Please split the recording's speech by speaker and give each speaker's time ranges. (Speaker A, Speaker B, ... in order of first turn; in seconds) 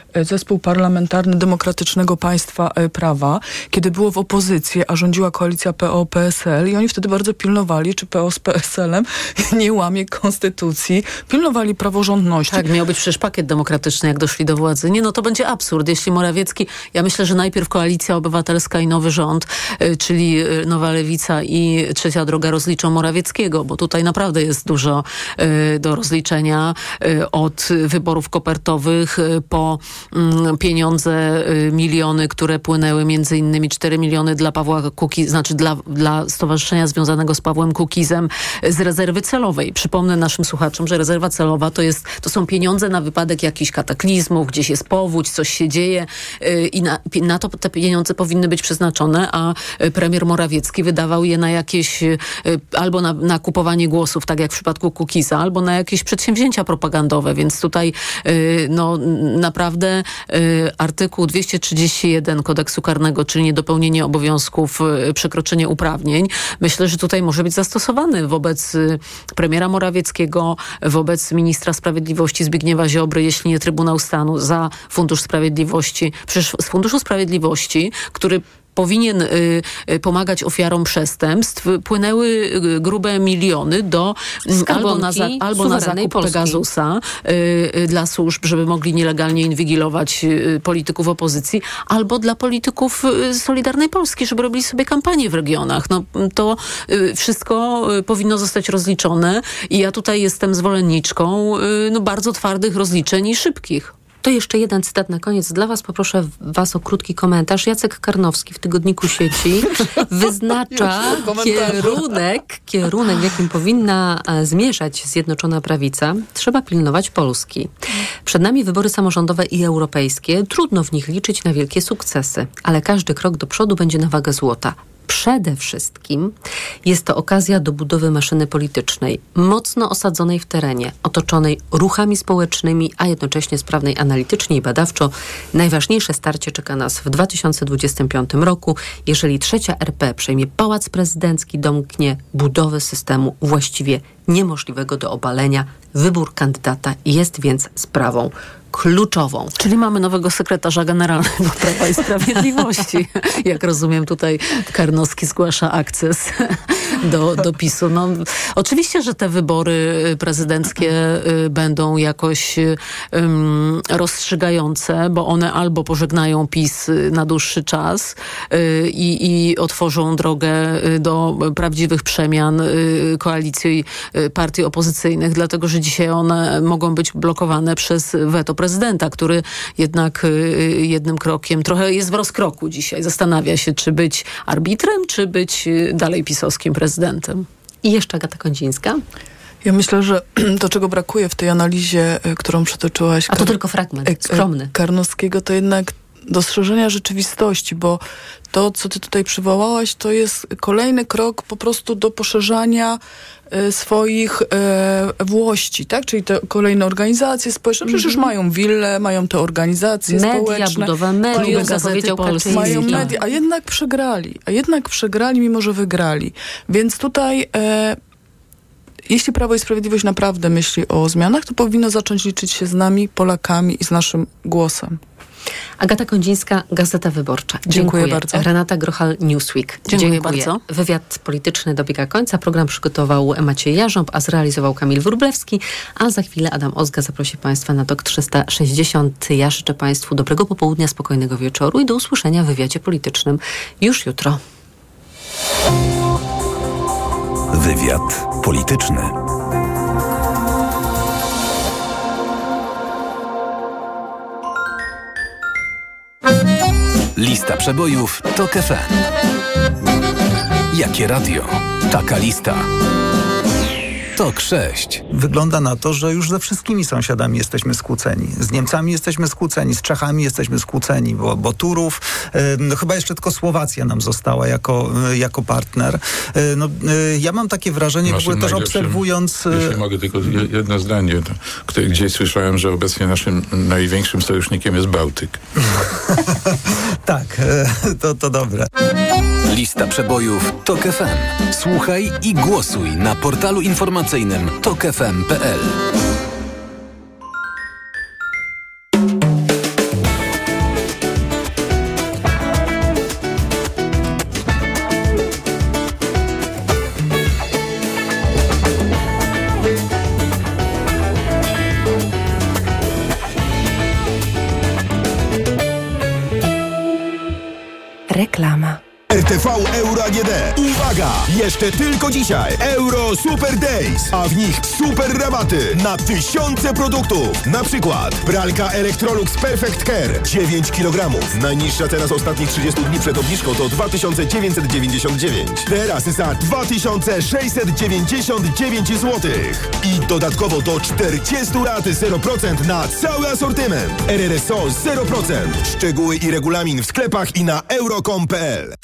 Speaker A: 0.1-12.7, 110.7-112.1, 189.6-203.0, 203.5-211.8, 212.4-218.0, 219.1-225.0, 227.7-228.5
Speaker B: 12.5-103.9, 149.6-187.5, 211.3-213.1, 229.9-230.6
Speaker C: 84.5-86.6, 104.2-117.7, 118.2-126.3, 126.8-149.6, 187.8-189.0, 193.3-194.7, 207.9-208.3, 210.1-213.2, 225.8-244.4, 318.1-318.8
Speaker D: 247.5-249.1, 257.2-258.9, 260.7-262.6, 264.2-265.0, 289.5-295.7
Speaker E: 265.1-279.8, 287.0-288.7
Speaker F: 278.1-285.4
Speaker G: 319.1-348.8